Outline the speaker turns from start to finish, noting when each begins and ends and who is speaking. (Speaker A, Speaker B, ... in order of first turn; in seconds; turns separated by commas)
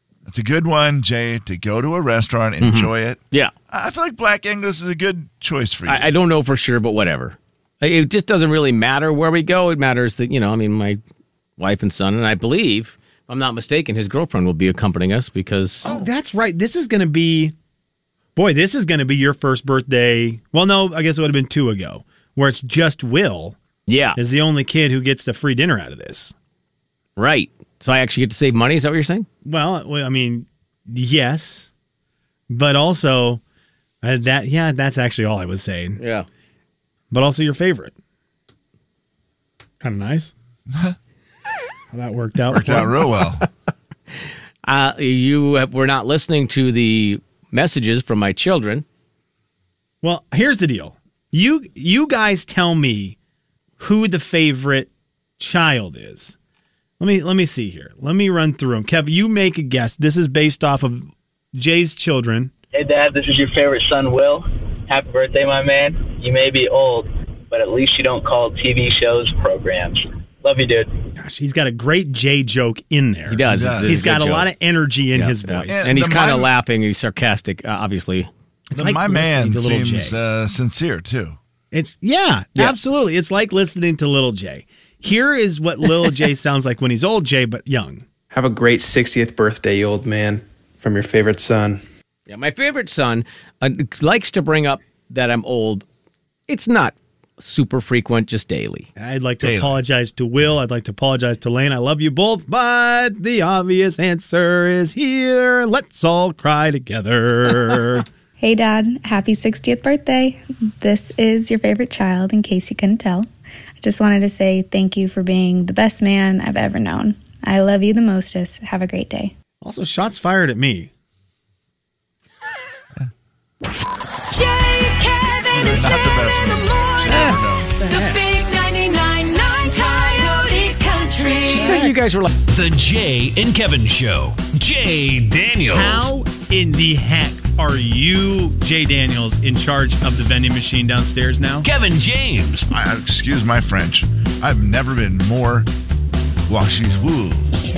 Speaker A: 0.2-6.1, Speaker B: 2.6-3.5, Speaker B: 5.8-11.0, Speaker B: 11.6-15.9, Speaker C: 15.8-17.5, Speaker C: 18.4-23.6, Speaker B: 23.9-24.2, Speaker C: 24.1-26.3, Speaker B: 27.2-29.3, Speaker C: 29.4-31.7, Speaker C: 32.5-33.4, Speaker C: 34.0-36.0, Speaker B: 36.0-36.3, Speaker C: 37.1-37.9, Speaker C: 39.8-40.3, Speaker C: 41.9-43.0, Speaker A: 42.5-43.5, Speaker B: 44.6-48.8, Speaker C: 50.0-53.1, Speaker C: 53.8-56.4, Speaker C: 57.0-62.5, Speaker D: 62.7-70.9, Speaker C: 71.2-76.1, Speaker B: 73.3-74.5, Speaker A: 73.5-74.1, Speaker B: 75.1-78.3, Speaker A: 75.7-76.5, Speaker C: 78.7-80.2, Speaker A: 78.7-81.4, Speaker C: 81.7-88.0, Speaker E: 88.3-91.8, Speaker B: 92.3-95.8, Speaker B: 96.5-98.9, Speaker C: 99.0-108.0, Speaker A: 99.4-99.8, Speaker F: 108.4-113.3, Speaker F: 113.8-119.3, Speaker C: 119.6-120.9, Speaker G: 124.3-127.0, Speaker A: 125.5-127.8, Speaker B: 127.1-128.2, Speaker G: 127.8-131.8, Speaker B: 131.4-132.3, Speaker C: 131.6-131.9, Speaker H: 132.3-136.1, Speaker C: 135.7-141.7, Speaker H: 141.6-142.7, Speaker A: 142.7-145.7, Speaker A: 146.5-147.5